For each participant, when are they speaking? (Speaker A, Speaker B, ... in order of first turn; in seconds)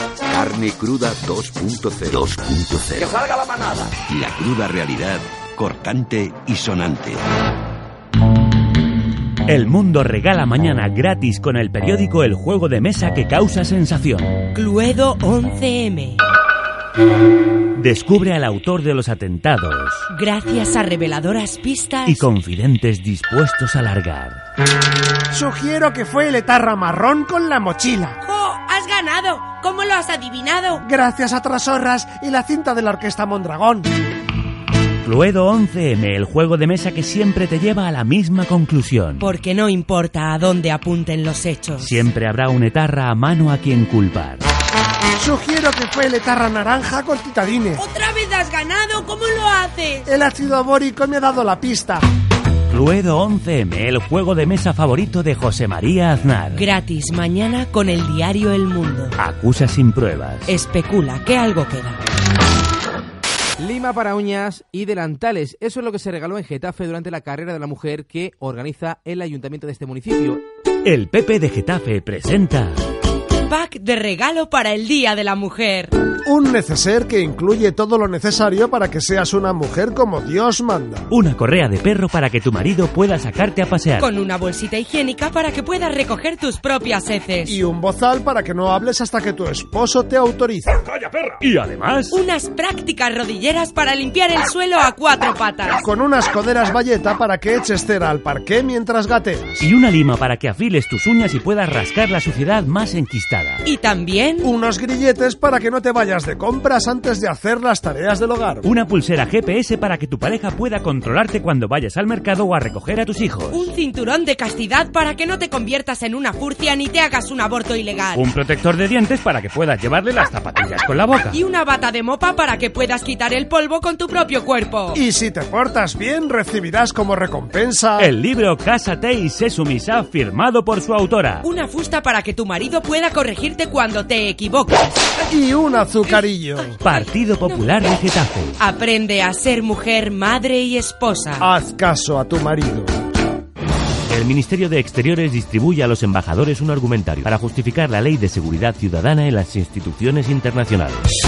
Speaker A: 0.3-3.4, 4.0-7.2
Speaker B: 9.5-14.3, 17.8-20.1, 22.1-24.4, 35.0-39.2, 41.8-44.4, 52.7-56.7, 59.2-60.5, 70.8-72.8, 81.1-84.1, 91.0-92.2, 99.6-103.6, 108.7-113.7, 118.1-121.4, 128.0-131.4, 136.8-138.6, 144.1-151.1
Speaker C: 14.6-16.2, 20.1-22.3, 28.2-30.8, 39.2-42.0, 47.8-50.1, 56.5-59.2, 60.5-62.0, 73.4-75.9, 84.0-87.6, 92.1-95.8, 103.7-104.5, 113.5-118.2, 121.3-125.0, 131.4-135.1, 136.0-137.9, 138.6-141.5
Speaker D: 25.3-28.2, 30.8-33.9, 45.2-47.8, 50.1-52.0, 76.2-81.1, 87.5-90.7, 95.7-99.6, 104.4-108.7, 124.9-128.1, 135.3-136.8, 141.4-142.9
Speaker E: 63.6-70.4